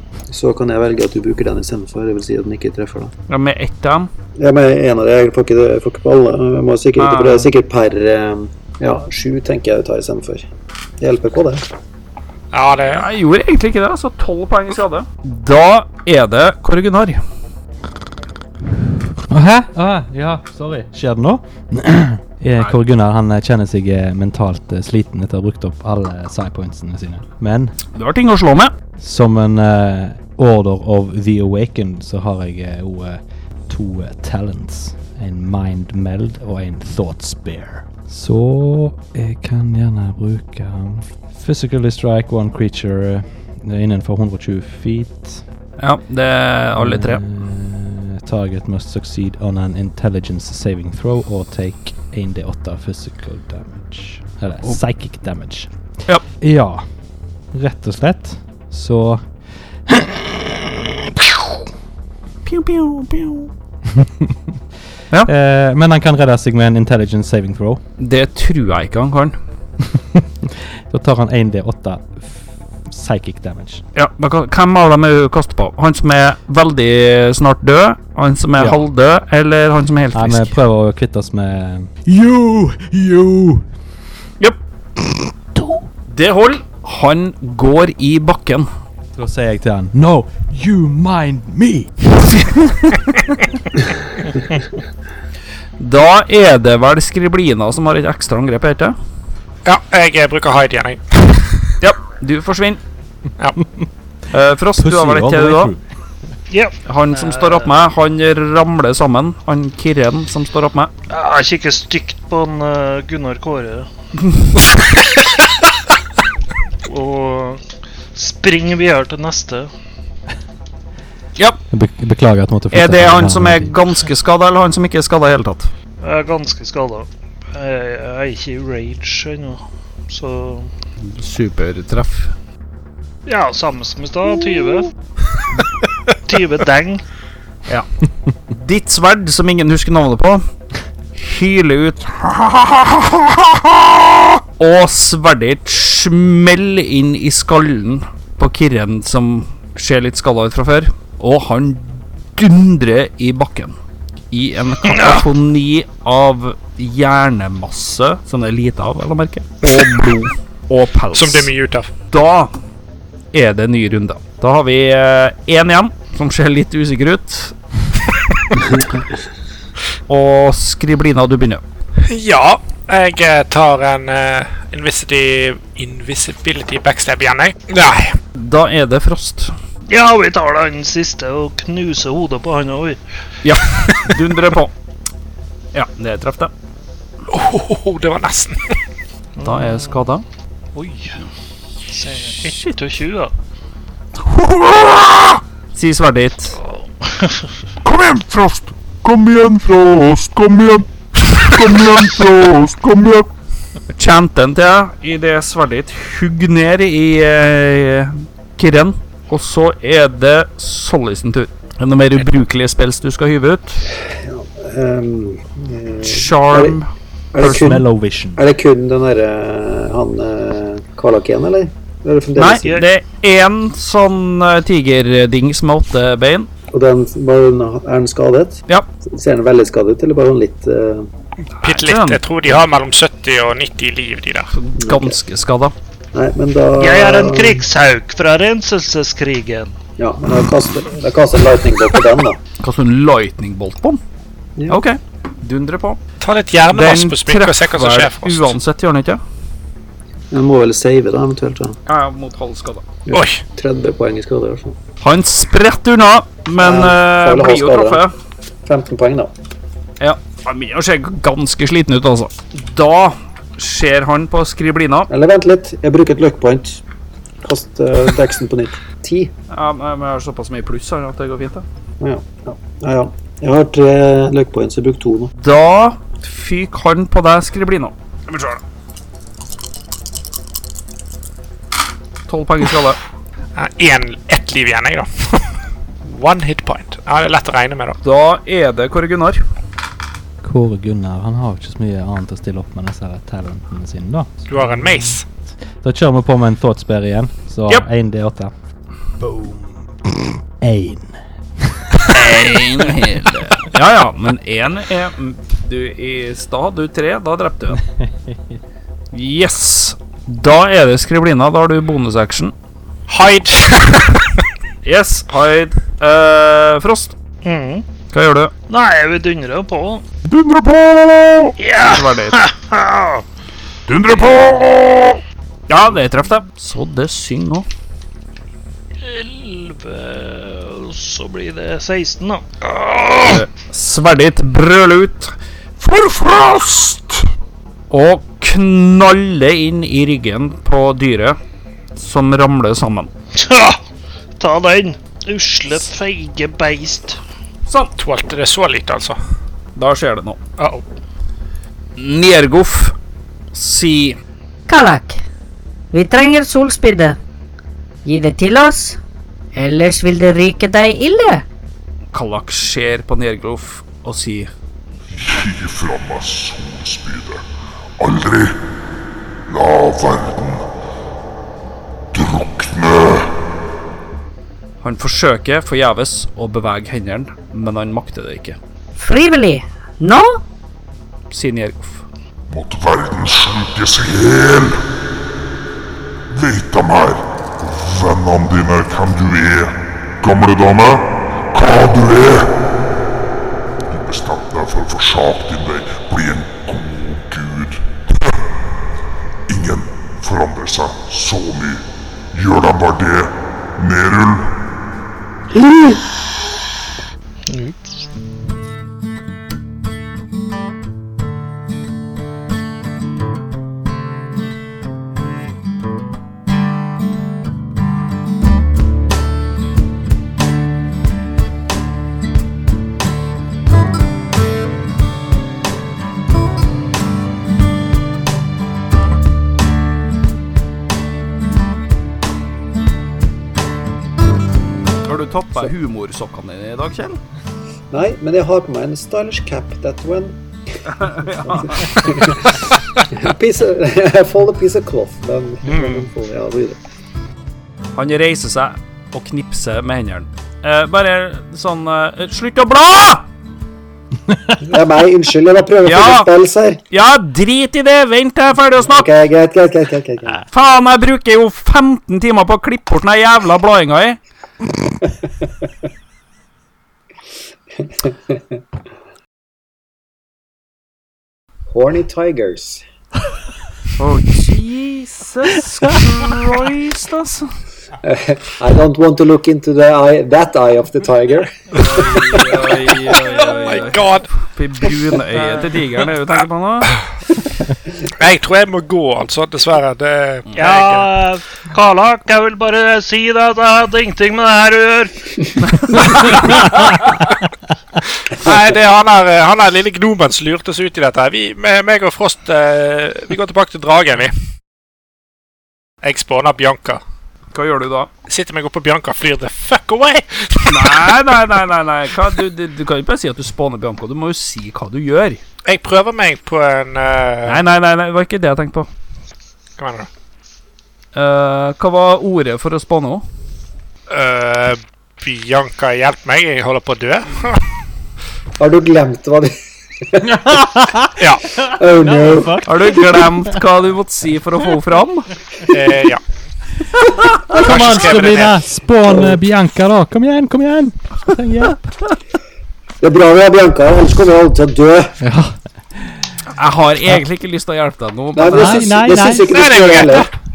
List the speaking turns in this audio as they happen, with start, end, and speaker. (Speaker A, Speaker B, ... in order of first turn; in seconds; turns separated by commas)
Speaker A: 0.3-3.1, Speaker B: 3.3-4.1, Speaker A: 4.4-10.5, Speaker B: 7.0-7.5, Speaker A: 11.0-11.7, Speaker C: 12.5-13.1, Speaker B: 12.9-17.2, Speaker D: 19.3-27.7, Speaker B: 27.9-28.7, Speaker D: 29.0-45.4, Speaker B: 45.8-47.2, Speaker D: 46.8-55.7, Speaker D: 56.4-56.9, Speaker D: 57.5-59.2, Speaker D: 59.9-61.6, Speaker B: 62.5-63.5, Speaker D: 64.0-64.3, Speaker D: 65.2-67.8, Speaker B: 68.0-69.4, Speaker D: 69.9-73.8, Speaker B: 73.9-80.6, Speaker D: 80.1-83.7, Speaker D: 85.5-85.9, Speaker B: 86.1-88.7, Speaker D: 89.2-93.0, Speaker B: 95.8-99.0, Speaker C: 99.6-101.7, Speaker B: 101.8-102.8, Speaker D: 103.6-103.9, Speaker B: 104.3-105.7, Speaker D: 104.8-105.8, Speaker E: 106.5-107.8, Speaker B: 106.9-110.9, Speaker E: 111.1-113.9, Speaker E: 116.9-119.7, Speaker D: 121.7-123.8, Speaker B: 122.7-125.7, Speaker E: 126.0-130.7, Speaker B: 131.0-132.3, Speaker E: 133.3-134.9, Speaker E: 136.3-137.0, Speaker B: 138.5-140.4, Speaker B: 141.1-143.5, Speaker B: 144.6-153.8, Speaker B: 154.3-161.5, Speaker E: 154.9-155.2, Speaker C: 161.1-161.9, Speaker B: 162.1-162.5, Speaker B: 163.3-167.6, Speaker B: 170.1-171.6, Speaker C: 172.0-178.2, Speaker B: 178.4-179.5, Speaker E: 179.9-183.0, Speaker B: 183.4-184.7, Speaker B: 185.7-186.5, Speaker C: 187.3-188.8, Speaker E: 189.4-190.0, Speaker B: 189.4-190.3, Speaker E: 190.7-191.3, Speaker E: 191.9-193.3, Speaker B: 192.4-192.8, Speaker F: 194.3-195.4, Speaker B: 195.7-196.6, Speaker E: 196.8-197.5, Speaker F: 197.8-203.3, Speaker B: 203.9-213.8, Speaker A: 213.9-216.8, Speaker B: 216.0-216.9, Speaker A: 217.3-222.7, Speaker D: 217.4-218.4, Speaker B: 217.4-217.8, Speaker B: 222.4-226.5, Speaker A: 226.7-231.1, Speaker B: 231.6-232.2, Speaker C: 231.6-234.5, Speaker B: 234.5-235.7, Speaker A: 234.8-235.2, Speaker A: 236.1-237.6, Speaker E: 236.8-239.8, Speaker A: 240.0-242.4, Speaker B: 242.6-244.0, Speaker B: 244.7-246.0, Speaker C: 246.2-248.5, Speaker B: 246.7-249.2, Speaker A: 250.3-251.8, Speaker B: 251.9-252.8, Speaker A: 253.1-254.8, Speaker C: 253.1-253.4, Speaker B: 255.0-258.1, Speaker A: 256.6-258.0, Speaker A: 258.7-259.3, Speaker B: 260.0-265.1, Speaker A: 265.1-266.8, Speaker A: 267.4-269.3, Speaker B: 269.5-271.7, Speaker A: 272.0-275.3, Speaker B: 275.4-278.6, Speaker B: 282.3-283.0, Speaker C: 283.6-285.5, Speaker C: 286.1-288.0, Speaker B: 288.0-289.4, Speaker D: 290.4-295.1, Speaker C: 294.5-295.2, Speaker D: 295.7-298.5, Speaker D: 299.2-302.2, Speaker B: 302.1-307.8, Speaker D: 308.0-308.6, Speaker B: 309.1-312.5, Speaker C: 313.1-314.4, Speaker B: 314.8-317.1, Speaker E: 317.4-317.9, Speaker B: 318.1-318.5, Speaker E: 318.7-320.0, Speaker F: 320.2-321.5, Speaker E: 321.6-323.2, Speaker B: 321.8-322.4, Speaker F: 323.9-325.2, Speaker B: 325.7-327.7, Speaker E: 329.0-333.3, Speaker B: 333.2-337.3, Speaker B: 337.9-341.4, Speaker B: 341.9-343.1, Speaker E: 343.4-343.8, Speaker E: 344.4-347.2, Speaker C: 348.0-349.2, Speaker B: 349.8-350.4, Speaker C: 350.6-350.8, Speaker B: 352.0-352.9, Speaker B: 353.5-354.2, Speaker G: 354.7-355.2, Speaker G: 355.9-357.2, Speaker G: 358.1-359.0, Speaker G: 359.6-361.4, Speaker B: 362.1-364.5, Speaker H: 365.1-367.4, Speaker H: 368.0-368.6, Speaker H: 369.5-370.7, Speaker H: 372.1-373.3, Speaker B: 374.8-378.6, Speaker G: 378.9-380.4, Speaker B: 381.3-382.1, Speaker H: 382.5-384.8, Speaker H: 386.3-392.7, Speaker H: 393.9-398.4, Speaker H: 399.5-404.6, Speaker A: 405.6-405.9, Speaker E: 407.5-408.0, Speaker B: 435.1-437.2, Speaker A: 437.9-440.4, Speaker B: 440.9-442.1, Speaker A: 441.7-446.8, Speaker E: 445.6-446.1, Speaker B: 447.9-453.3, Speaker D: 454.3-454.6, Speaker A: 454.6-456.8, Speaker B: 455.8-456.3, Speaker B: 456.9-459.1, Speaker A: 458.8-460.4, Speaker B: 460.4-464.2, Speaker A: 467.8-468.4, Speaker A: 471.7-472.8, Speaker B: 474.0-477.5, Speaker A: 478.0-481.9, Speaker B: 481.8-487.0, Speaker C: 483.4-484.3, Speaker C: 488.2-491.1, Speaker E: 490.5-495.5, Speaker C: 496.2-496.6, Speaker C: 498.3-504.3, Speaker C: 506.0-507.0, Speaker B: 507.5-508.1, Speaker C: 508.3-511.1, Speaker B: 510.7-515.4, Speaker C: 515.7-517.6, Speaker B: 517.5-518.9, Speaker C: 519.8-520.1, Speaker B: 521.1-523.2, Speaker C: 524.1-527.6, Speaker A: 528.6-530.6, Speaker D: 530.2-533.6, Speaker C: 531.2-531.4, Speaker A: 531.6-533.0, Speaker B: 532.6-535.3, Speaker C: 535.7-536.2, Speaker D: 536.9-541.8, Speaker C: 537.5-538.6, Speaker A: 539.1-539.4, Speaker A: 543.0-545.2, Speaker D: 545.2-546.2, Speaker B: 546.5-549.1, Speaker A: 548.4-550.3, Speaker D: 548.5-549.6, Speaker C: 549.4-550.3